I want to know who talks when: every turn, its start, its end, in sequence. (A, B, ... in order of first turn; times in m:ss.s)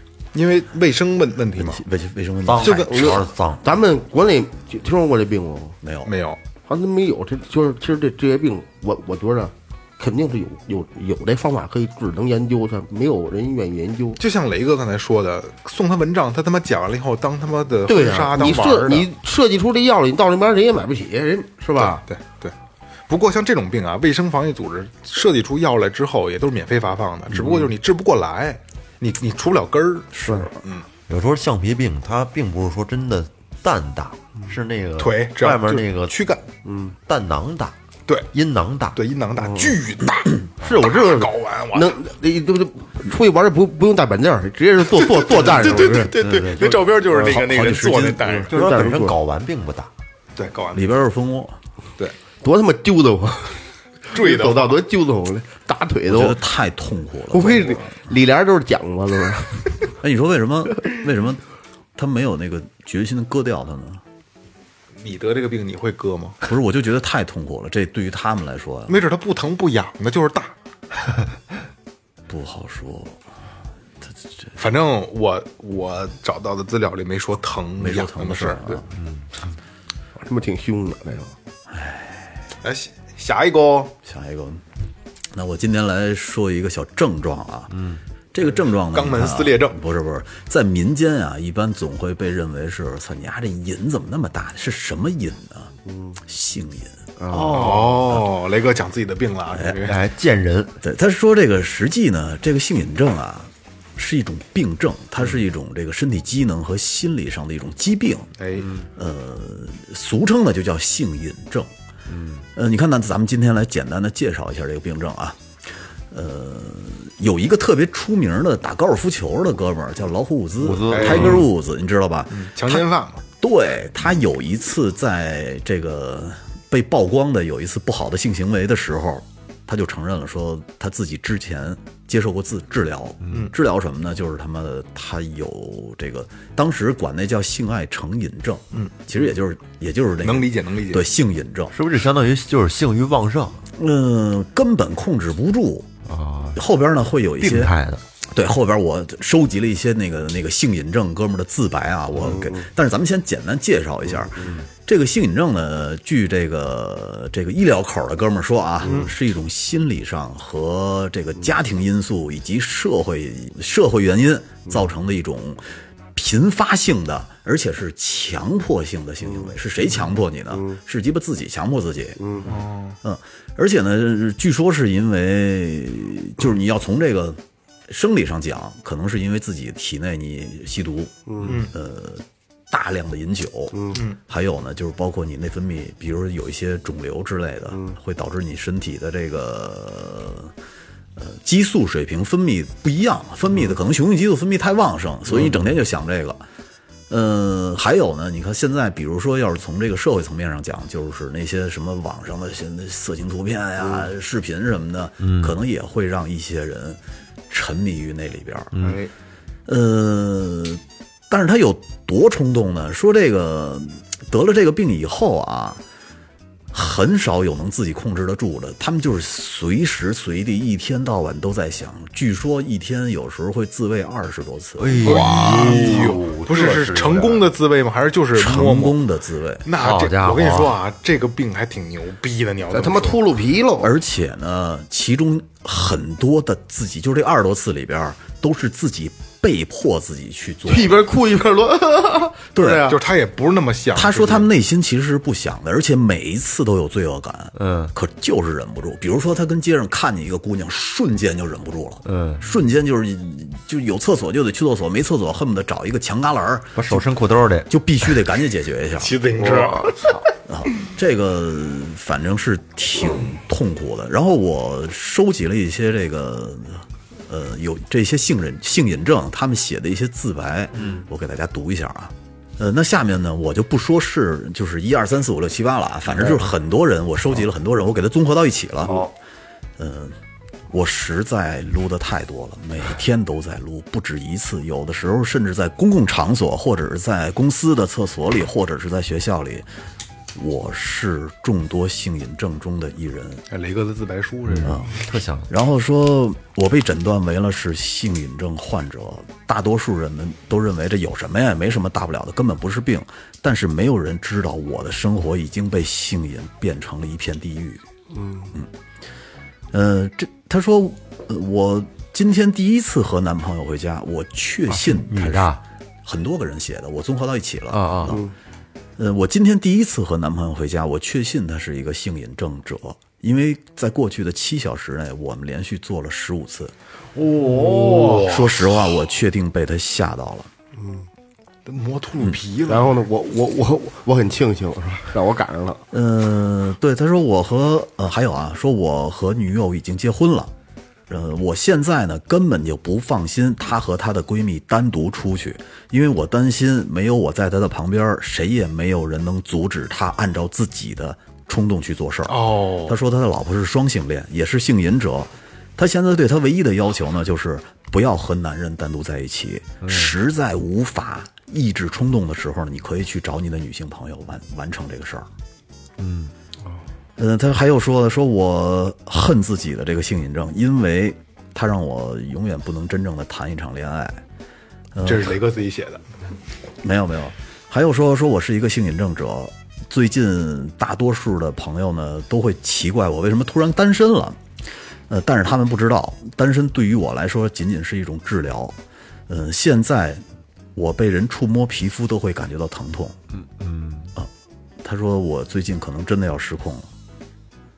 0:00.3-0:01.8 A
0:01.6-0:02.9 B
0:02.4-0:03.6 C
0:02.6-0:03.1 A
0:02.9-0:05.8 D
0:05.8-0:06.1 B
0:06.0-0:06.4 A
0:06.7-0:14.2 D
0:14.2-0:19.1 A
0:17.9-0:22.0 D
0:21.7-0:22.5 A
0:23.1-0:30.8 A
0:30.1-0:30.5 B
0:31.1-0:36.2 C
0:35.0-0:36.4 A
0:36.6-0:37.0 D
0:37.0-0:37.7 C
0:38.3-0:39.0 C
0:38.9-0:42.0 A
0:39.4-0:39.7 D
0:40.6-0:46.2 D
0:45.0-0:48.7 A
0:45.9-0:47.3 C
0:47.2-0:48.4 B
0:48.3-0:49.2 D
0:48.5-0:49.9 C
0:50.4-0:50.9 A
0:50.7-0:51.6 B
0:52.4-0:56.4 D
0:54.1-0:54.8 A
0:56.1-0:58.0 B
0:57.3-0:59.7 D
1:00.0-1:01.4 B
1:02.0-1:04.0 B
1:05.0-1:06.4 A
1:06.4-1:09.0 B
1:08.9-1:10.5 A
1:12.3-1:13.2 B
1:14.0-1:14.5 B
1:14.6-1:18.8 A
1:17.8-1:18.9 B
1:18.9-1:19.3 C
1:20.2-1:21.3 D
1:21.7-1:22.4 B
1:22.6-1:23.9 A
1:24.0-1:24.6 B
1:25.3-1:27.8 B
1:27.7-1:28.0 C
1:28.3-1:35.7 B
1:28.4-1:29.8 A
1:35.9-1:36.2 D
1:36.2-1:38.2 B
1:37.2-1:37.9 D
1:37.3-1:40.0 A
1:39.5-1:39.9 B
1:39.8-1:40.8 C
1:40.8-1:48.3 B
1:48.4-1:48.7 A
1:48.6-1:48.9 C
1:49.0-1:51.7 B
1:52.1-1:52.4 C
1:52.5-1:55.4 B
1:56.1-2:02.8 B
2:00.6-2:01.5 C
2:00.9-2:01.5 A
2:02.3-2:03.2 A
2:03.4-2:21.7 B
2:13.2-2:13.5 C
2:20.2-2:21.0 A
2:21.7-2:23.6 C
2:23.7-2:25.9 B
2:26.0-2:26.6 C
2:26.5-2:27.7 B
2:27.4-2:28.0 C
2:28.3-2:45.6 B
2:32.3-2:32.7 D
2:46.1-2:52.4 B
2:52.2-2:52.5 D
2:52.4-2:53.0 A
2:53.0-3:10.5 B
3:01.3-3:01.6 D
3:01.4-3:01.7 A
3:03.7-3:04.0 D
3:11.2-3:16.4 B
3:17.1-3:28.8 B
3:25.2-3:25.6 C
3:28.7-3:29.0 C
3:29.6-3:35.8 B
3:36.7-3:45.6 B
3:44.8-3:47.5 C
3:45.0-3:49.0 A
3:48.3-3:49.6 B
3:49.6-3:53.2 A
3:49.8-3:50.8 C
3:52.7-3:53.9 D
3:53.8-4:01.0 B
4:00.6-4:03.0 D
4:02.5-4:02.9 B
4:02.8-4:04.5 A
4:03.9-4:17.1 B
4:07.6-4:07.9 C
4:12.0-4:12.4 C
4:16.7-4:18.1 C
4:17.7-4:19.2 B
4:19.0-4:20.0 A
4:19.4-4:20.2 D
4:20.4-4:39.1 B
4:30.8-4:31.0 C
4:36.1-4:36.5 C
4:38.8-4:39.1 C
4:39.8-4:40.2 B
4:40.7-4:49.7 B
4:50.3-4:53.4 B
4:53.5-4:54.9 A
4:54.5-4:55.5 C
4:54.6-4:54.9 B
4:55.5-5:07.8 B
5:08.1-5:08.5 D
5:09.7-5:18.2 B
5:14.7-5:15.6 C
5:17.7-5:18.2 C
5:18.1-5:18.3 D
5:19.0-5:26.7 B
5:27.2-5:28.3 C
5:27.5-5:28.7 A
5:27.6-5:30.5 B
5:30.8-5:31.0 D
5:31.6-5:33.0 A
5:32.7-5:35.8 D
5:35.9-5:40.5 B
5:41.1-6:05.3 B
5:52.3-5:53.0 A
5:59.8-6:00.1 C
6:06.0-6:06.3 C
6:07.2-6:14.2 B
6:14.9-6:15.4 B
6:15.0-6:16.0 A
6:16.8-6:24.4 B
6:25.1-6:30.2 B
6:30.7-6:33.2 B
6:33.3-6:34.2 C
6:34.8-6:36.9 B